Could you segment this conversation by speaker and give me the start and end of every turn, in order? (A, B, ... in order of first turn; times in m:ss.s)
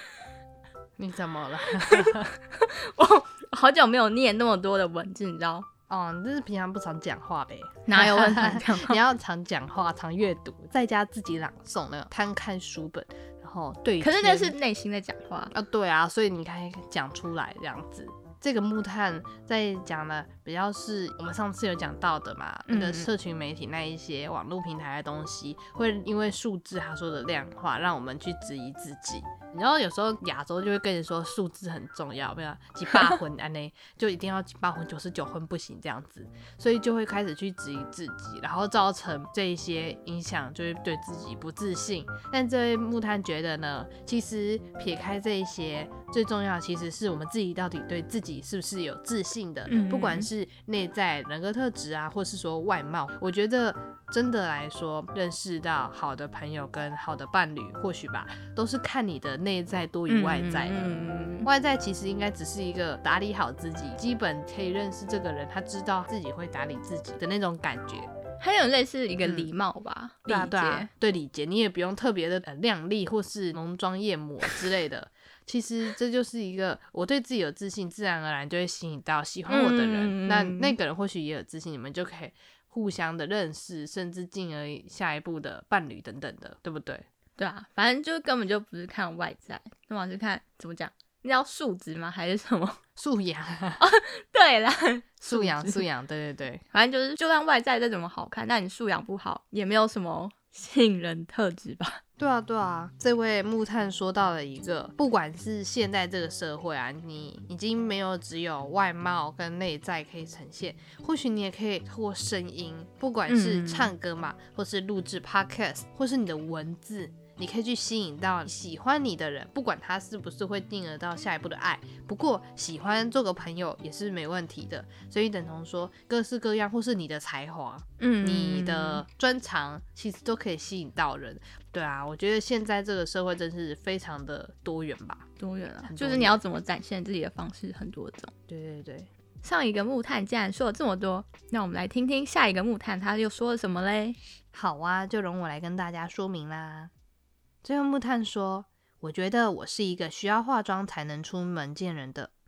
0:01.0-0:02.3 A
0:01.9-0:05.6 B
0:05.9-0:14.6 A
0:07.9-0:09.0 B
0:14.0-0:15.5 B
0:15.5-1:08.1 A
0:22.7-0:23.1 B
0:49.7-0:50.3 B
1:00.1-1:01.5 B
1:08.4-1:10.9 B
1:09.2-1:09.5 A
1:10.2-1:27.0 A
1:19.5-1:20.8 B
1:27.4-1:32.8 B
1:33.0-1:33.8 A
1:33.8-1:35.8 B
1:35.2-1:36.6 A
1:36.7-1:42.0 B
1:42.2-2:15.2 A
1:53.2-1:53.9 B
2:08.0-2:09.0 B
2:15.4-2:18.3 B
2:15.8-2:16.4 A
2:18.5-2:19.1 A
2:19.4-2:24.2 B
2:24.5-2:26.9 A
2:27.6-2:32.3 A